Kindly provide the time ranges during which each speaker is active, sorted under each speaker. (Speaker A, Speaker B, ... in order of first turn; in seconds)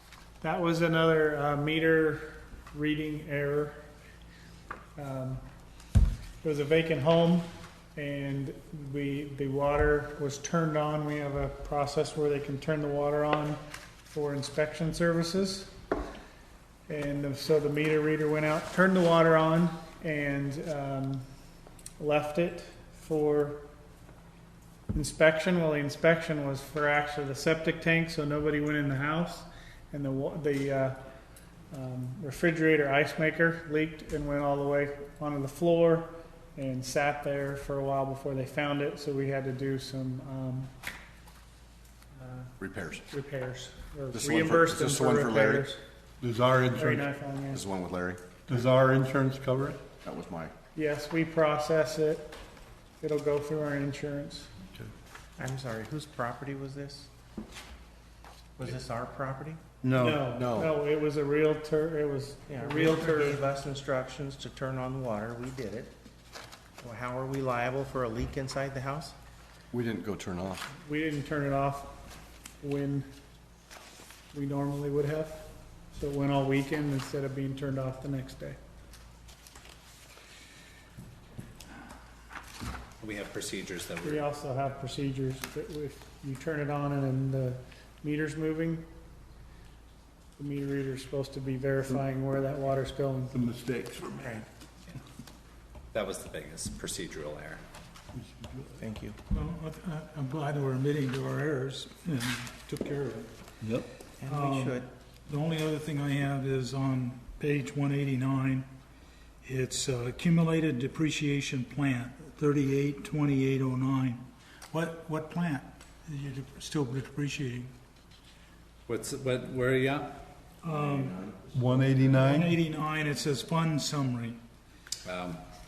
Speaker A: 0.4-3.8, 5.0-5.4, 6.4-15.7, 16.9-21.2, 22.0-23.6, 24.9-31.0, 31.7-40.7, 42.2-42.5, 43.1-45.8, 46.7-47.6, 50.7-52.3, 53.0-54.5, 60.0-63.4, 70.8-71.9, 72.6-73.1, 74.3-78.6, 84.0-88.8, 90.4-93.3
Speaker B: 42.6-43.0, 44.1-45.7, 47.5-48.2, 50.0-50.5, 60.3-60.7, 69.7-70.6, 120.7-121.3
Speaker C: 46.2-47.1, 48.5-49.8, 59.8-60.2, 93.3-94.3, 98.1-98.8, 103.6-103.9, 121.5-122.5
Speaker D: 55.4-57.1, 58.6-59.6, 62.5-65.9, 66.8-69.2, 94.1-94.5, 98.8-99.2, 104.2-104.9
Speaker E: 83.0-84.3, 95.9-97.6, 118.9-120.1, 125.0-125.4
Speaker F: 99.3-103.3, 104.3-104.8, 105.3-108.7, 109.4-117.7, 120.6-121.2, 122.1-124.4